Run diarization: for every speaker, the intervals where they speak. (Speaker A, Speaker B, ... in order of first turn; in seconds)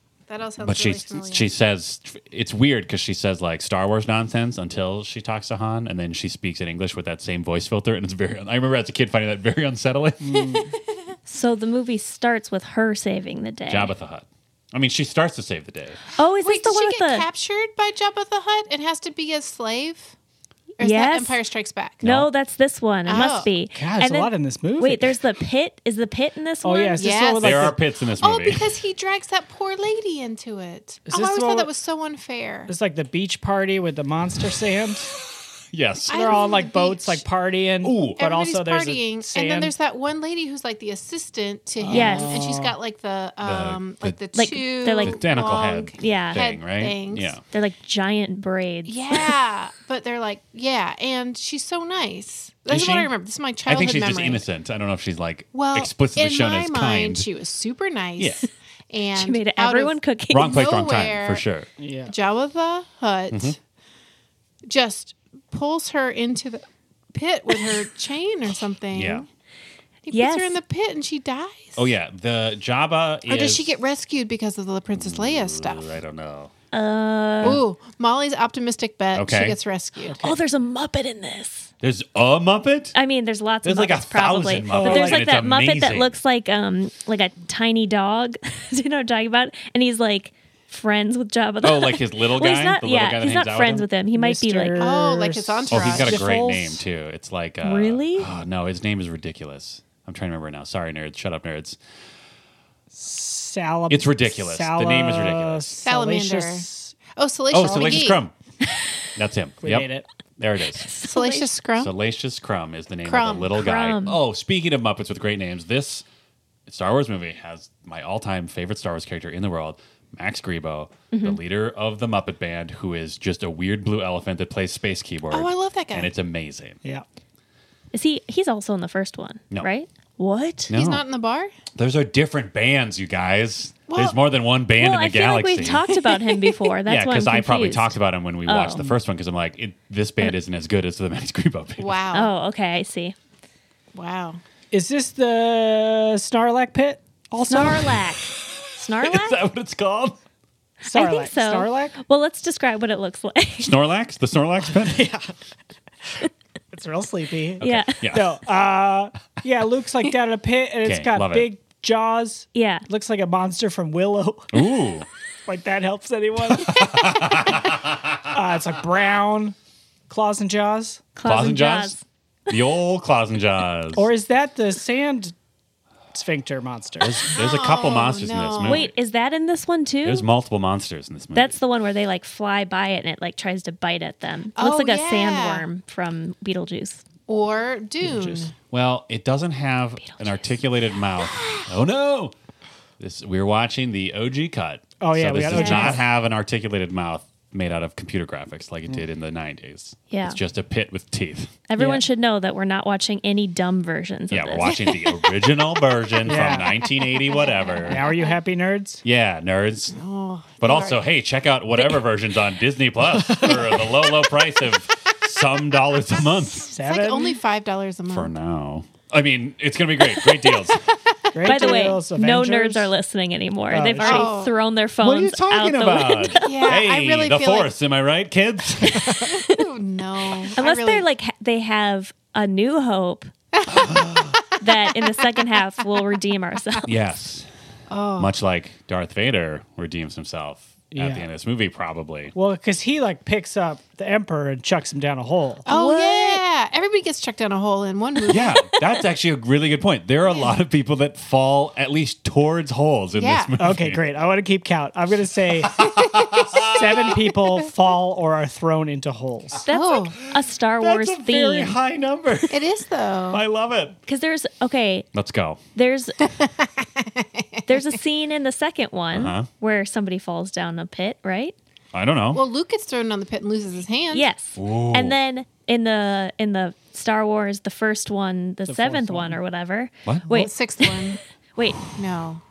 Speaker A: 0.3-1.5, 16.4-20.1, 20.8-22.0, 23.1-23.5, 27.0-32.7, 36.1-37.2, 38.2-47.3, 48.9-54.4, 55.5-61.4, 62.1-63.6, 64.7-69.2, 70.0-71.8, 73.3-75.8, 77.4-80.2, 94.8-96.2, 105.8-108.2, 111.0-111.9, 113.0-113.5, 125.3-126.1, 130.7-131.5, 133.9-134.2, 135.8-136.6, 141.8-142.3, 143.9-144.4, 177.3-178.9, 184.6-185.7, 187.3-188.5, 207.4-208.2, 209.9-211.0, 213.4-213.8, 216.6-218.3, 220.2-220.8, 221.5-221.8, 224.0-224.5, 226.4-227.7, 229.2-231.1, 233.7-234.3, 237.9-238.3, 245.6-248.7, 253.2-253.5, 259.7-260.2, 262.5-263.4, 266.4-267.7, 272.3-274.3, 280.3-281.2, 281.9-282.4
Speaker B: 0.6-10.2, 13.7-16.0, 22.0-22.3, 27.4-28.7, 35.7-36.4, 37.8-38.2, 43.4-44.2, 44.9-47.4, 52.7-53.1, 53.6-57.3, 58.2-58.5, 60.3-61.7, 63.3-63.6, 68.9-69.2, 71.8-73.8, 74.9-76.5, 79.1-79.6, 81.8-82.9, 83.6-86.2, 91.6-93.8, 95.7-101.8, 103.9-105.8, 107.5-108.3, 109.1-110.9, 111.8-116.0, 116.7-126.8, 130.7-131.0, 131.8-135.8, 136.8-142.0, 149.0-150.2, 153.6-155.1, 157.6-158.3, 160.8-161.5, 164.5-165.1, 166.5-168.2, 171.2-171.9, 172.5-174.1, 177.0-178.9, 180.0-181.6, 188.7-192.3, 193.0-201.5, 204.3-208.1, 209.0-209.9, 210.6-216.7, 218.1-220.8, 225.0-229.3, 233.7-234.4, 236.8-237.5, 238.2-242.3, 248.2-254.0, 255.6-257.2, 260.8-262.7, 263.3-264.0, 265.1-265.6, 269.1-269.5, 271.9-272.4, 274.6-275.1
Speaker C: 10.2-10.7, 23.7-25.1, 26.6-27.8, 31.1-31.7, 32.7-35.1, 36.1-39.7, 41.8-42.7, 61.8-62.1, 80.0-80.4, 84.7-85.3, 94.1-96.8, 102.9-107.0, 107.7-108.1, 109.6-110.0, 144.7-148.0, 150.8-152.0, 154.6-155.4, 156.7-164.6, 165.4-167.5, 168.3-169.6, 170.1-171.0, 173.9-175.3, 176.1-177.2, 188.0-188.5, 195.0-196.0, 201.8-202.0, 206.2-206.8, 207.8-209.0, 213.3-213.7, 216.7-217.4, 221.3-222.9, 223.7-224.3, 240.9-241.3, 242.3-245.6, 253.6-256.0, 256.6-259.7, 278.6-279.4
Speaker D: 11.3-13.9, 16.1-17.2, 20.8-21.4, 22.0-27.1, 41.9-42.3, 44.3-45.2, 46.0-46.4, 47.5-49.3, 59.1-60.6, 70.1-70.6, 76.7-77.6, 80.2-81.7, 82.9-94.8, 97.6-98.3, 110.8-111.5, 113.6-114.2, 121.1-121.4, 127.9-130.7, 134.8-138.9, 142.1-143.1, 147.5-149.4, 150.9-153.7, 157.6-158.0, 162.5-162.8, 171.1-172.0, 178.6-180.2, 181.3-187.0, 190.0-190.5, 195.5-196.0, 200.1-200.4, 201.7-204.7, 221.4-226.5, 230.6-233.3, 234.6-236.9, 245.7-246.4, 259.6-261.8, 264.1-265.1, 265.7-266.3, 267.7-271.5, 274.1-281.8